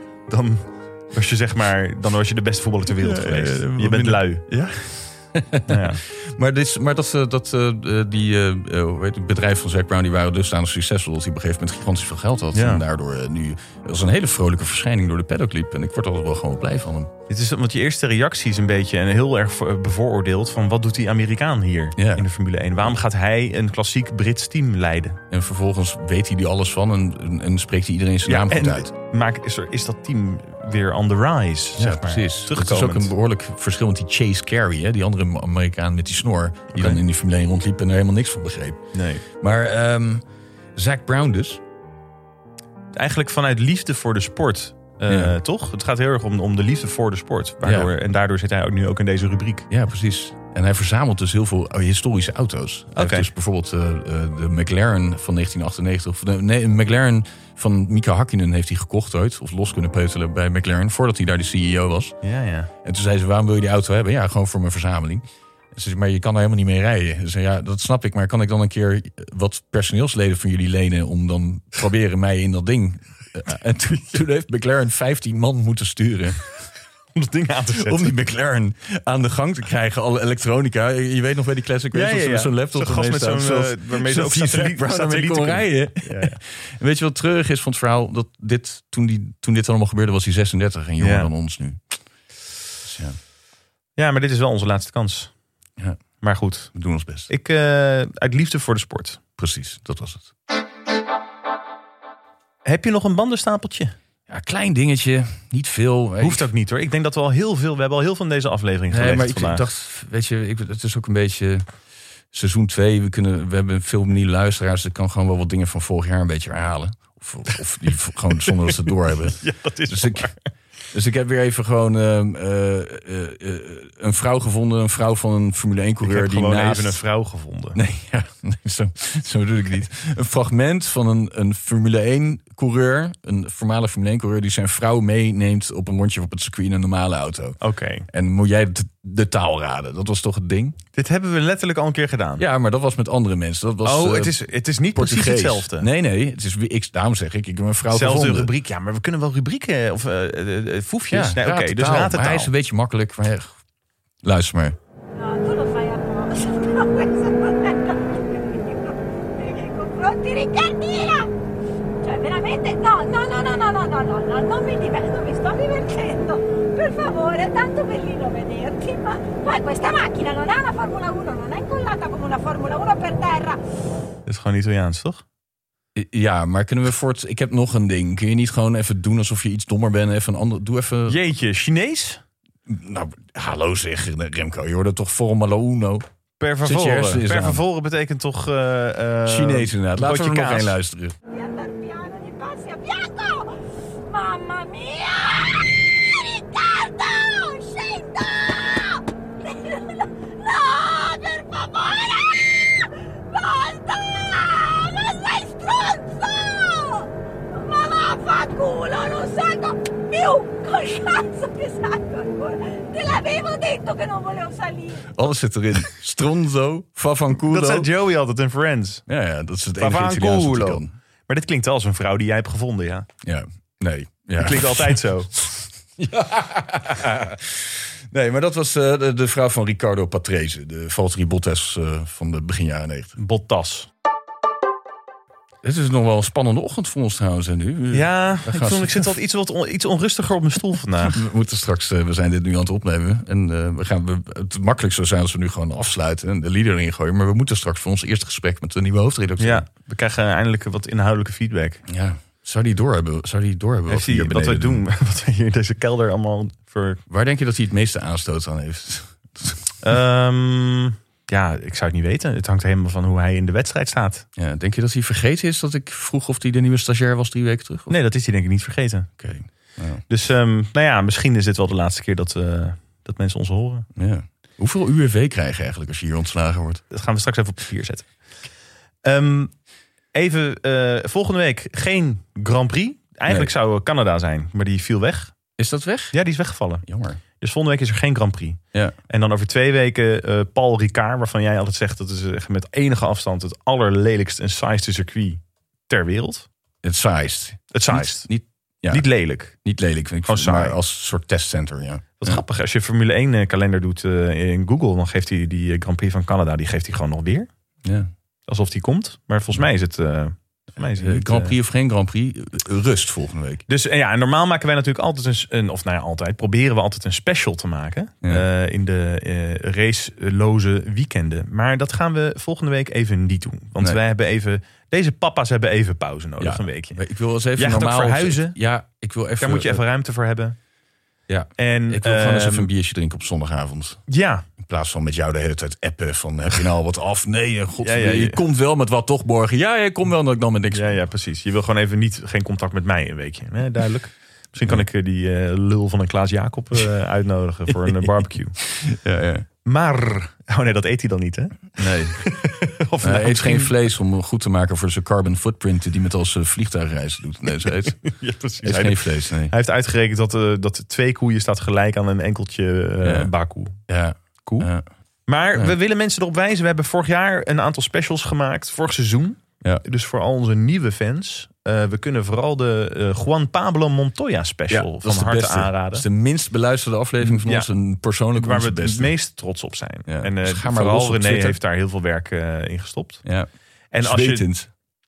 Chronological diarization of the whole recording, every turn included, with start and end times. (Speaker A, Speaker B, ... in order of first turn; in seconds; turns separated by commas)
Speaker A: 0.3-4.4, Speaker B: 3.0-17.1, Speaker A: 5.7-6.0, Speaker A: 12.5-12.8, Speaker A: 17.3-25.2, Speaker B: 22.0-22.2, Speaker B: 25.3-28.9, Speaker A: 28.2-33.1, Speaker B: 31.8-40.2, Speaker A: 36.7-37.0, Speaker A: 38.9-39.2, Speaker B: 40.8-41.6, Speaker A: 42.9-49.7, Speaker B: 45.1-45.3, Speaker B: 47.6-47.9, Speaker B: 49.7-62.1, Speaker A: 53.0-53.3, Speaker A: 62.2-62.7, Speaker B: 62.8-76.6, Speaker A: 77.1-78.1, Speaker B: 77.7-91.8, Speaker A: 81.9-86.4, Speaker A: 91.0-91.3, Speaker B: 92.8-93.2, Speaker A: 94.0-95.3, Speaker A: 96.2-96.7, Speaker B: 96.7-97.3, Speaker A: 97.3-99.2, Speaker B: 99.4-100.3, Speaker A: 102.6-103.9, Speaker B: 104.3-106.5, Speaker A: 106.2-109.6, Speaker B: 108.9-111.7, Speaker B: 112.3-120.3, Speaker A: 118.5-120.5, Speaker B: 120.9-127.0, Speaker A: 126.0-127.8, Speaker B: 127.7-140.8, Speaker A: 137.6-138.1, Speaker A: 140.9-142.4, Speaker B: 142.4-144.4, Speaker A: 143.8-145.9, Speaker B: 144.9-148.5, Speaker A: 147.9-152.5, Speaker B: 151.1-153.6, Speaker B: 154.2-154.8, Speaker C: 155.2-161.3, Speaker C: 162.0-173.6, Speaker A: 174.2-175.2, Speaker B: 175.9-181.2, Speaker A: 181.1-182.2, Speaker B: 182.7-186.0, Speaker A: 186.4-190.8, Speaker B: 186.6-187.6, Speaker B: 189.2-191.1, Speaker C: 191.3-193.5, Speaker C: 194.1-215.2, Speaker B: 215.1-217.9, Speaker A: 217.4-219.0, Speaker B: 219.1-220.9, Speaker A: 219.8-223.1, Speaker B: 223.2-233.2, Speaker A: 224.4-225.3, Speaker A: 233.2-233.9, Speaker B: 235.6-239.1, Speaker A: 237.9-241.2, Speaker B: 241.1-249.7, Speaker A: 249.4-251.8, Speaker B: 251.9-254.8, Speaker A: 253.9-257.0, Speaker B: 257.1-259.6, Speaker A: 259.8-264.3, Speaker B: 264.4-267.9, Speaker A: 267.9-269.1, Speaker B: 269.2-270.0, Speaker A: 270.1-273.9, Speaker B: 273.9-276.8, Speaker A: 276.9-278.1, Speaker A: 279.0-279.5, Speaker A: 280.1-285.3, Speaker B: 285.6-286.2, Speaker A: 286.1-286.8, Speaker B: 286.8-287.2, Speaker A: 287.4-296.5, Speaker B: 296.8-302.4, Speaker A: 297.7-298.3, Speaker A: 298.9-299.6, Speaker A: 300.2-300.8, Speaker A: 302.2-307.5, Speaker B: 307.8-308.1, Speaker A: 308.5-311.5, Speaker B: 311.0-313.6, Speaker A: 313.7-327.0, Speaker B: 326.4-329.8, Speaker A: 327.6-328.6, Speaker A: 329.4-330.6, Speaker B: 331.3-334.0, Speaker A: 331.6-332.7, Speaker A: 334.1-334.4, Speaker B: 334.6-341.0, Speaker A: 337.8-338.4, Speaker A: 340.7-348.6, Speaker B: 347.8-349.4, Speaker A: 349.6-353.7, Speaker B: 351.8-352.2, Speaker B: 353.0-359.5, Speaker A: 357.8-363.8, Speaker B: 363.0-363.3, Speaker B: 363.9-364.8, Speaker A: 364.4-364.7, Speaker A: 365.3-376.0, Speaker B: 374.7-379.1, Speaker A: 377.2-377.7, Speaker A: 378.3-383.2, Speaker B: 380.1-381.6, Speaker A: 383.9-384.5, Speaker B: 384.0-384.7